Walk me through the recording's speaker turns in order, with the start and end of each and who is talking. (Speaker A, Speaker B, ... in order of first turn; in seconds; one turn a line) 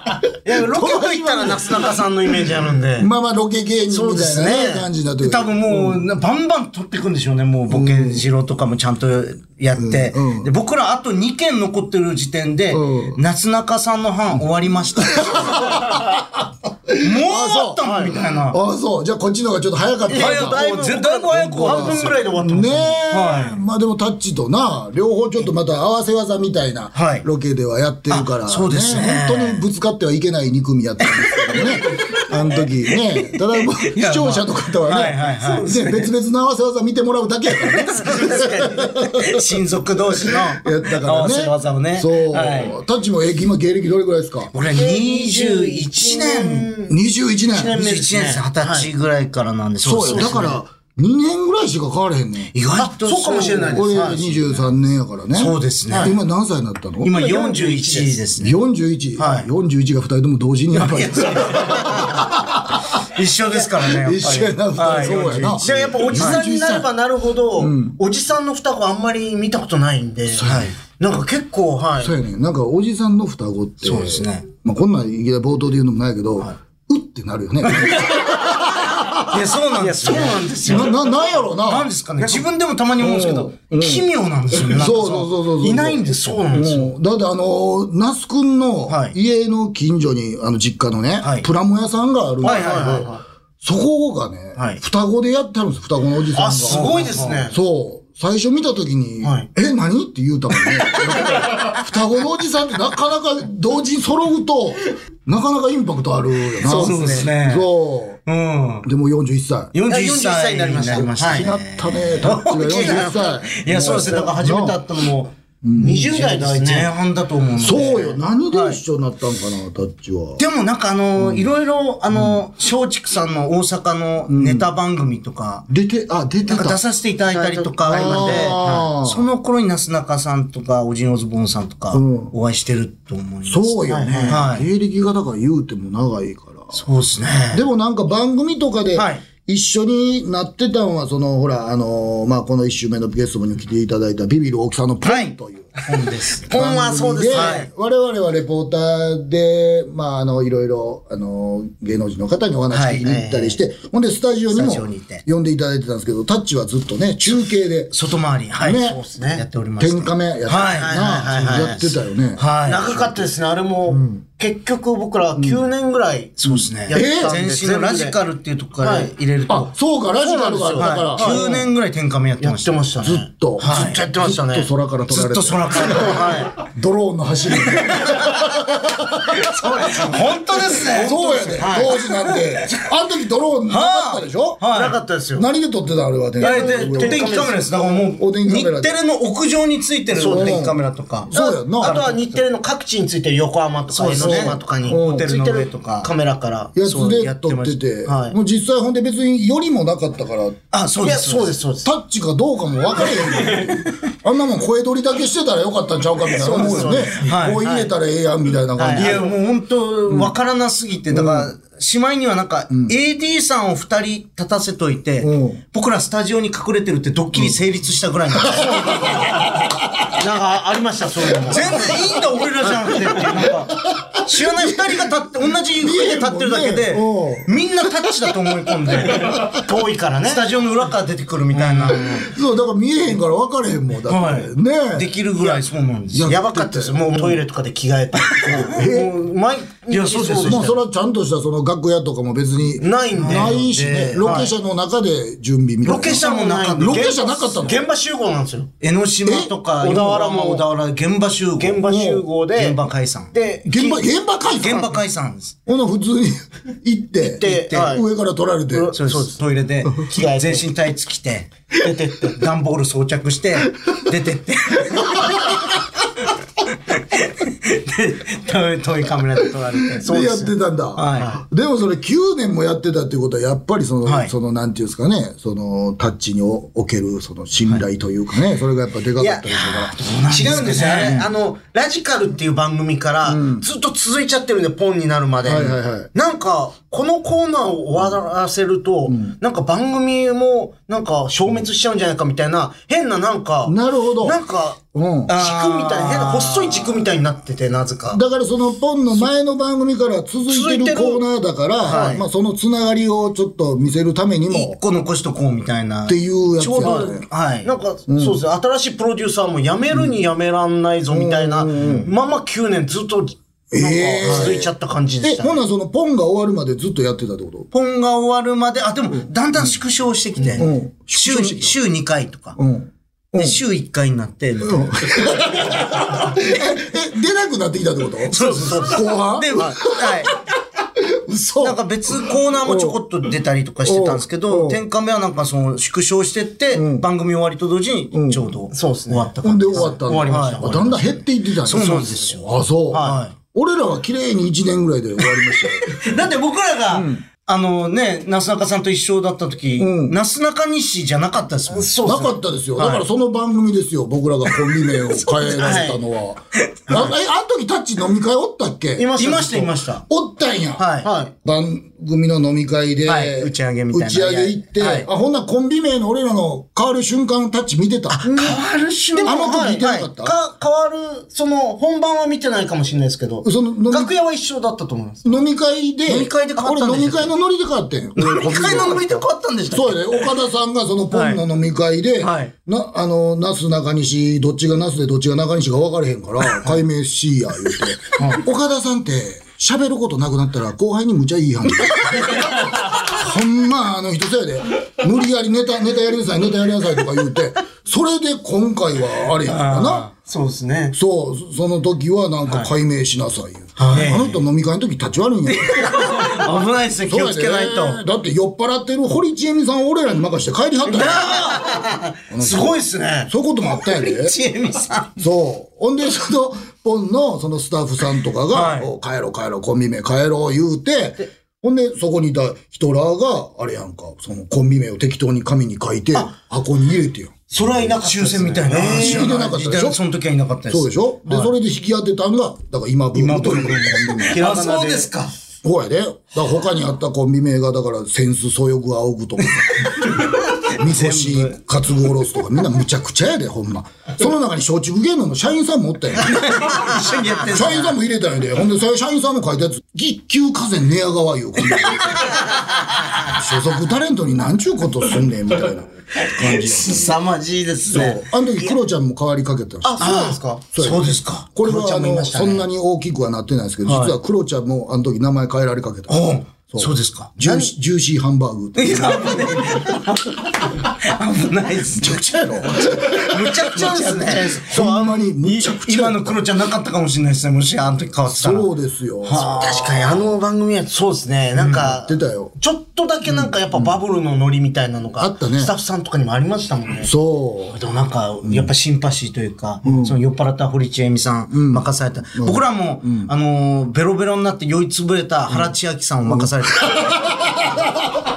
Speaker A: 0.4-3.1
Speaker B: 0.6-1.5
Speaker C: 2.9-6.0
Speaker A: 3.9-4.9
Speaker B: 5.2-15.9
Speaker C: 7.7-8.2
Speaker C: 9.7-10.5
Speaker C: 12.7-13.2
Speaker C: 14.9-20.6
Speaker B: 17.0-18.6
Speaker A: 17.8-18.2
Speaker A: 20.1-23.0
Speaker B: 20.1-22.3
Speaker C: 21.5-39.4
Speaker B: 23.1-23.6
Speaker B: 26.9-27.2
Speaker B: 28.1-29.7
Speaker B: 31.3-35.6
Speaker A: 35.3-36.1
Speaker A: 37.9-38.9
Speaker B: 39.0-42.7
Speaker C: 40.5-44.5
Speaker B: 44.5-46.7
Speaker A: 44.7-46.9
Speaker C: 46.8-47.8
Speaker A: 47.5-48.9
Speaker B: 47.7-50.6
Speaker C: 49.8-52.5
Speaker A: 50.0-50.4
Speaker B: 52.5-53.8
Speaker A: 52.8-54.5
Speaker C: 53.6-57.1
Speaker B: 55.3-56.1
Speaker A: 55.9-56.1
Speaker B: 57.0-58.6
Speaker A: 57.1-58.2
Speaker C: 58.4-63.0
Speaker B: 59.2-59.5
Speaker B: 60.7-62.0
Speaker A: 61.7-62.1
Speaker B: 63.0-66.4
Speaker C: 63.8-66.9
Speaker A: 65.6-72.1
Speaker C: 67.6-68.0
Speaker C: 70.3-70.7
Speaker B: 70.4-70.7
Speaker C: 72.0-79.4
Speaker B: 73.8-74.5
Speaker B: 77.7-78.2
Speaker B: 79.3-81.0
Speaker A: 79.7-81.0
Speaker C: 80.6-81.9
Speaker B: 81.6-85.4
Speaker A: 82.2-82.4
Speaker C: 83.0-108.2
Speaker A: 85.6-86.9
Speaker B: 88.9-89.1
Speaker B: 91.2-91.5
Speaker A: 92.4-93.2
Speaker B: 92.4-93.1
Speaker A: 96.3-97.5
Speaker B: 96.7-97.4
Speaker A: 99.2-99.5
Speaker A: 100.9-101.7
Speaker B: 106.6-107.7
Speaker A: 106.6-107.3
Speaker B: 108.2-108.9
Speaker C: 108.8-109.7
Speaker B: 109.7-114.8
Speaker A: 109.9-111.6
Speaker C: 111.0-114.8
Speaker A: 112.2-113.3
Speaker A: 113.8-116.9
Speaker C: 115.6-116.2
Speaker B: 116.1-118.8
Speaker C: 117.6-120.4
Speaker B: 120.4-125.7
Speaker C: 121.2-121.5
Speaker C: 122.1-122.4
Speaker C: 124.3-124.7
Speaker C: 125.7-126.8
Speaker B: 126.5-134.7
Speaker A: 127.3-128.6
Speaker C: 127.8-129.3
Speaker C: 131.9-132.3
Speaker C: 133.4-136.7
Speaker A: 133.9-134.4
Speaker B: 136.7-137.6
Speaker C: 137.5-145.9
Speaker B: 138.9-139.2
Speaker B: 145.0-146.5
Speaker A: 146.0-147.7
Speaker C: 146.5-157.9
Speaker B: 147.3-147.7
Speaker B: 152.7-153.1
Speaker A: 153.0-153.6
Speaker B: 154.5-155.2
Speaker B: 157.9-163.0
Speaker C: 158.6-159.0
Speaker A: 158.8-159.4
Speaker C: 159.8-163.0
Speaker A: 160.8-161.9
Speaker A: 162.6-168.2
Speaker C: 163.9-164.2
Speaker C: 165.3-165.6
Speaker B: 166.4-169.7
Speaker C: 166.9-167.4
Speaker A: 168.8-169.1
Speaker C: 169.5-171.4
Speaker A: 170.2-171.7
Speaker B: 170.8-172.7
Speaker A: 172.4-174.7
Speaker C: 173.0-180.1
Speaker B: 173.6-174.0
Speaker B: 175.1-176.5
Speaker A: 175.9-176.5
Speaker B: 177.6-178.4
Speaker B: 179.3-182.0
Speaker A: 180.0-182.4
Speaker C: 180.7-184.6
Speaker B: 183.7-185.0
Speaker A: 184.7-185.4
Speaker C: 185.3-187.3
Speaker A: 186.4-187.7
Speaker B: 186.4-192.4
Speaker C: 188.2-189.0
Speaker A: 190.1-190.7
Speaker C: 190.2-190.8
Speaker C: 191.3-192.0
Speaker A: 191.3-196.8
Speaker B: 193.9-196.1
Speaker C: 194.1-195.3
Speaker C: 196.7-200.6
Speaker B: 196.8-197.8
Speaker A: 198.1-198.3
Speaker B: 200.7-201.5
Speaker A: 201.0-201.9
Speaker C: 201.8-209.3
Speaker A: 206.3-207.8
Speaker B: 206.4-207.9
Speaker A: 208.8-209.3
Speaker B: 208.9-219.1
Speaker C: 211.1-211.5
Speaker C: 215.2-215.6
Speaker C: 218.5-220.1
Speaker A: 220.1-222.0
Speaker B: 221.5-229.6
Speaker A: 222.6-223.5
Speaker C: 224.0-224.7
Speaker C: 225.7-228.3
Speaker C: 229.3-229.6
Speaker A: 229.3-230.4
Speaker B: 230.2-232.3
Speaker A: 231.5-232.2
Speaker C: 232.1-235.1
Speaker B: 234.1-236.3
Speaker C: 236.1-237.4
Speaker A: 236.2-240.8
Speaker B: 238.3-238.7
Speaker C: 238.4-239.2
Speaker B: 239.9-240.7
Speaker C: 240.4-246.2
Speaker A: 242.8-244.5
Speaker B: 243.1-244.5
Speaker A: 245.8-248.7
Speaker B: 245.9-247.2
Speaker C: 246.8-247.8
Speaker B: 248.8-251.8
Speaker C: 249.2-249.5
Speaker A: 249.8-250.6
Speaker A: 251.6-252.8
Speaker C: 251.8-252.2
Speaker B: 252.5-253.3
Speaker A: 253.3-254.1
Speaker C: 253.7-255.0
Speaker B: 254.6-255.6
Speaker C: 255.7-258.9
Speaker A: 257.2-258.1
Speaker A: 258.7-260.7
Speaker B: 258.9-261.5
Speaker A: 261.8-262.4
Speaker B: 262.3-265.6
Speaker C: 265.2-265.5
Speaker B: 266.9-271.3
Speaker C: 269.9-279.9
Speaker A: 270.1-270.4
Speaker B: 274.0-274.3
Speaker A: 279.2-279.6
Speaker B: 279.5-281.3
Speaker A: 280.3-294.8
Speaker C: 283.2-283.6
Speaker C: 285.4-286.1
Speaker C: 289.1-289.3
Speaker C: 293.6-294.4
Speaker C: 294.9-295.3
Speaker B: 295.3-297.0
Speaker A: 295.3-298.2
Speaker C: 298.1-304.8
Speaker A: 300.5-301.2
Speaker A: 301.8-302.2
Speaker B: 301.8-302.2
Speaker B: 304.5-307.7
Speaker C: 306.1-307.2
Speaker A: 306.8-315.6
Speaker C: 308.1-308.4
Speaker C: 311.1-312.1
Speaker B: 311.8-312.1
Speaker C: 313.7-317.7
Speaker B: 314.2-314.6
Speaker B: 317.7-322.6
Speaker C: 320.6-321.8
Speaker C: 322.6-323.6
Speaker B: 323.4-325.3
Speaker C: 324.6-330.3
Speaker B: 328.3-330.3
Speaker A: 328.4-328.7
Speaker C: 330.9-333.0
Speaker B: 331.6-343.3
Speaker C: 333.8-334.8
Speaker C: 336.7-337.1
Speaker C: 338.1-338.5
Speaker A: 338.7-341.1
Speaker C: 339.4-345.9
Speaker A: 342.9-343.2
Speaker B: 345.9-352.0
Speaker C: 346.9-347.2
Speaker C: 349.8-350.1
Speaker A: 351.7-352.3
Speaker C: 352.0-359.1
Speaker B: 352.8-353.0
Speaker A: 355.6-356.0
Speaker B: 356.8-357.1
Speaker A: 359.0-359.8
Speaker B: 359.1-360.0
Speaker C: 360.1-360.9
Speaker B: 360.8-361.1
Speaker A: 361.0-361.3
Speaker C: 361.4-368.6
Speaker B: 363.0-365.1
Speaker B: 368.1-370.1
Speaker A: 368.2-368.6
Speaker A: 369.1-375.4
Speaker C: 369.2-370.4
Speaker C: 373.4-374.1
Speaker C: 375.2-400.1
Speaker B: 376.1-377.3
Speaker B: 378.1-380.3
Speaker B: 381.1-381.4
Speaker B: 382.2-382.5
Speaker B: 399.4-400.1
Speaker A: 400.1-400.9
Speaker C: 400.9-406.3
Speaker B: 403.8-404.3
Speaker A: 403.9-404.3
Speaker B: 405.5-408.0
Speaker C: 407.1-411.5
Speaker B: 410.9-411.9
Speaker A: 411.2-413.3
Speaker C: 412.3-414.4
Speaker B: 413.9-415.1
Speaker C: 415.2-427.9
Speaker B: 418.5-418.9
Speaker A: 427.5-429.5
Speaker B: 427.7-431.5
Speaker C: 428.8-430.0
Speaker C: 430.7-434.4
Speaker B: 433.1-435.3
Speaker A: 434.3-435.3
Speaker C: 435.6-446.8
Speaker B: 439.9-441.6
Speaker B: 446.2-448.0
Speaker C: 447.4-452.4
Speaker C: 453.2-457.2
Speaker B: 456.3-458.2
Speaker C: 457.9-469.8
Speaker A: 459.8-460.6
Speaker B: 460.0-461.6
Speaker A: 461.6-462.6
Speaker B: 463.8-464.1
Speaker B: 466.1-467.3
Speaker A: 467.4-467.7
Speaker B: 468.8-478.7
Speaker C: 471.9-476.4
Speaker A: 473.6-474.8
Speaker C: 478.3-479.4
Speaker B: 479.2-480.2
Speaker A: 479.3-487.1
Speaker B: 481.6-481.9
Speaker C: 481.8-482.5
Speaker C: 483.3-483.9
Speaker C: 485.2-485.7
Speaker C: 487.0-487.8
Speaker B: 487.7-497.3
Speaker C: 488.4-488.7
Speaker C: 489.8-490.1
Speaker C: 491.5-493.3
Speaker C: 495.5-495.7
Speaker C: 496.2-497.9